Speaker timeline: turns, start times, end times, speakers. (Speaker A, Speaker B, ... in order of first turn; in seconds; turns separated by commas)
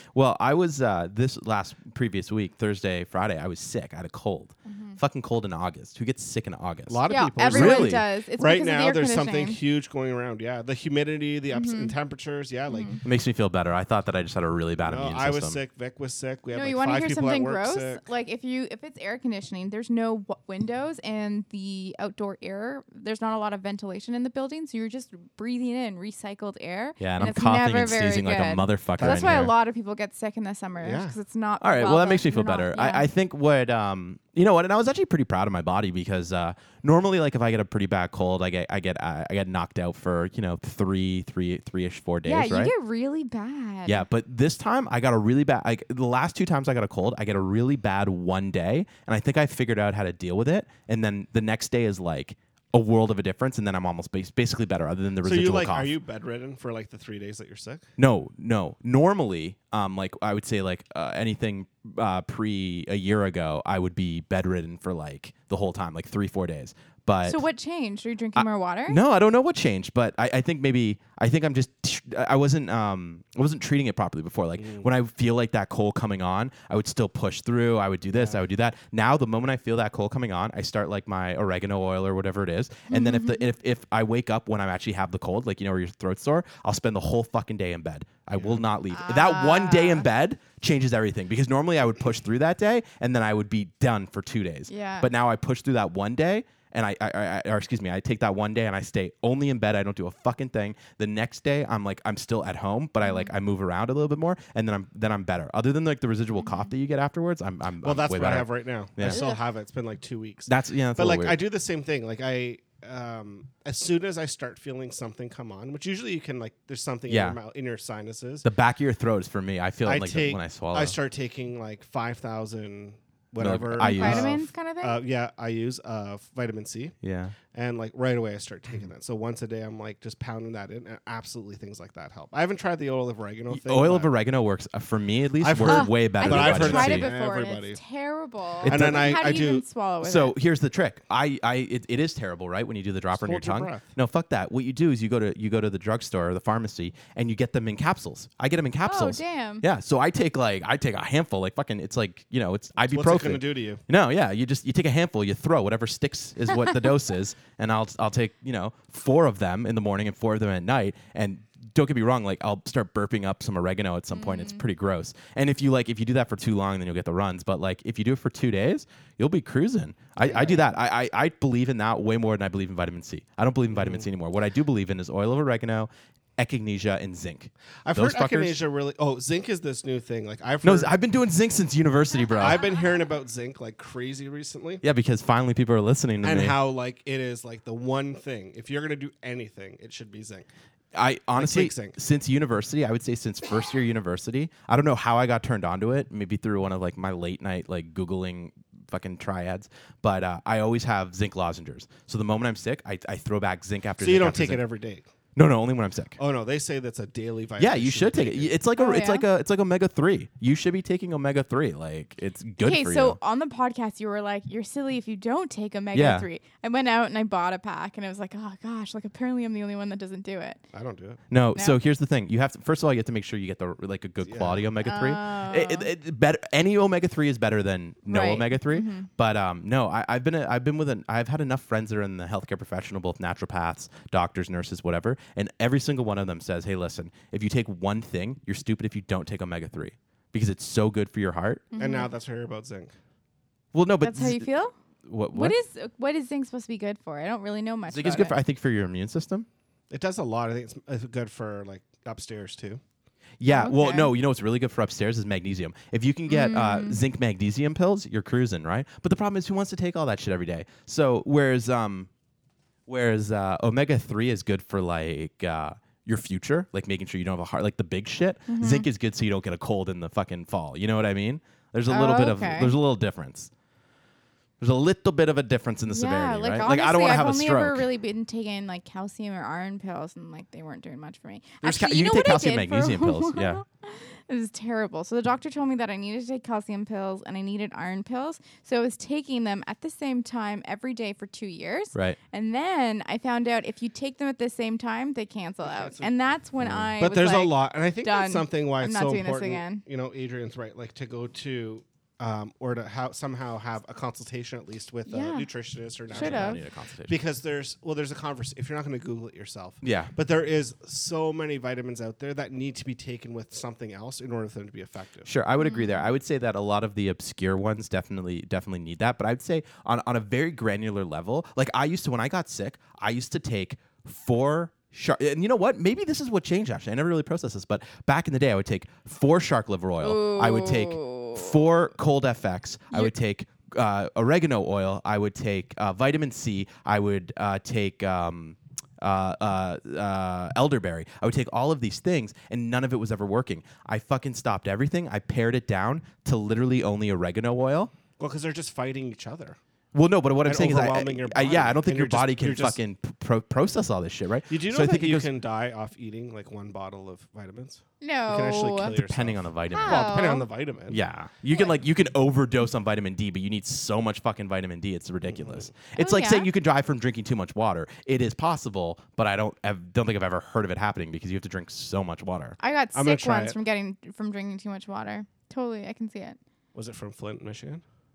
Speaker A: 0.1-8.0, Speaker B: 4.7-5.0, Speaker C: 6.9-13.0, Speaker B: 7.1-9.6, Speaker B: 11.5-11.9, Speaker B: 12.7-13.0, Speaker A: 13.0-15.6, Speaker C: 14.8-18.0, Speaker B: 16.5-33.1, Speaker A: 27.0-29.5, Speaker C: 29.0-29.5, Speaker C: 30.8-31.2, Speaker A: 31.6-42.7, Speaker B: 42.2-44.0, Speaker A: 43.9-55.9, Speaker C: 55.2-57.8, Speaker A: 58.0-67.4, Speaker B: 67.2-69.0, Speaker A: 68.4-109.2, Speaker C: 74.6-74.9, Speaker C: 78.1-78.4, Speaker B: 82.9-83.5, Speaker C: 88.3-88.6, Speaker B: 88.9-90.1, Speaker B: 94.7-95.1, Speaker B: 103.0-103.3, Speaker C: 107.8-118.5, Speaker B: 109.0-109.4, Speaker A: 110.5-111.4, Speaker A: 117.1-117.4, Speaker A: 118.4-121.0, Speaker C: 119.8-126.9, Speaker A: 123.4-124.4, Speaker B: 123.8-125.0, Speaker A: 127.0-127.3, Speaker C: 127.5-134.1, Speaker A: 133.5-137.1, Speaker C: 135.4-137.8, Speaker B: 135.7-140.4, Speaker C: 138.6-139.6, Speaker A: 138.6-139.4, Speaker A: 140.0-178.6, Speaker C: 143.1-143.9, Speaker B: 148.8-149.6, Speaker C: 152.9-153.8, Speaker B: 164.1-164.6, Speaker C: 170.2-170.7, Speaker C: 173.7-174.1, Speaker C: 177.8-180.9, Speaker A: 180.6-182.6, Speaker C: 182.4-184.8, Speaker A: 184.8-186.6, Speaker C: 186.2-190.5, Speaker A: 190.9-204.6, Speaker C: 191.4-191.9, Speaker C: 204.0-205.1, Speaker A: 205.3-206.2, Speaker C: 206.2-208.5, Speaker A: 207.6-213.2, Speaker B: 208.8-209.2, Speaker B: 212.6-220.6, Speaker A: 215.9-216.3, Speaker C: 220.7-221.2, Speaker A: 221.3-241.7, Speaker C: 224.2-224.7, Speaker B: 224.8-225.9, Speaker B: 228.1-229.1, Speaker B: 241.7-242.1, Speaker C: 241.8-242.9, Speaker A: 243.7-244.5, Speaker B: 244.0-244.7, Speaker A: 245.1-245.6, Speaker B: 245.3-248.4, Speaker A: 247.9-249.5, Speaker C: 249.9-252.8, Speaker A: 253.4-262.1, Speaker B: 253.5-254.1, Speaker B: 256.3-257.0, Speaker A: 262.9-273.5, Speaker B: 268.5-268.9, Speaker B: 271.9-272.8, Speaker A: 274.6-277.9, Speaker B: 275.9-299.8, Speaker A: 281.6-283.6, Speaker C: 295.6-296.1, Speaker A: 296.6-296.9, Speaker C: 297.0-315.3, Speaker B: 305.1-305.5, Speaker A: 306.1-307.2, Speaker B: 306.1-306.6, Speaker A: 309.8-310.1, Speaker A: 315.3-347.9, Speaker B: 315.6-316.0, Speaker B: 330.0-331.6, Speaker C: 348.2-349.6, Speaker A: 349.9-355.3, Speaker C: 350.4-352.8, Speaker C: 354.5-361.0, Speaker B: 358.0-358.9, Speaker A: 358.8-360.3, Speaker B: 359.7-360.4, Speaker A: 360.9-372.6, Speaker C: 365.3-365.7, Speaker B: 365.9-366.5, Speaker B: 372.6-376.4, Speaker C: 372.9-373.6, Speaker C: 376.7-377.8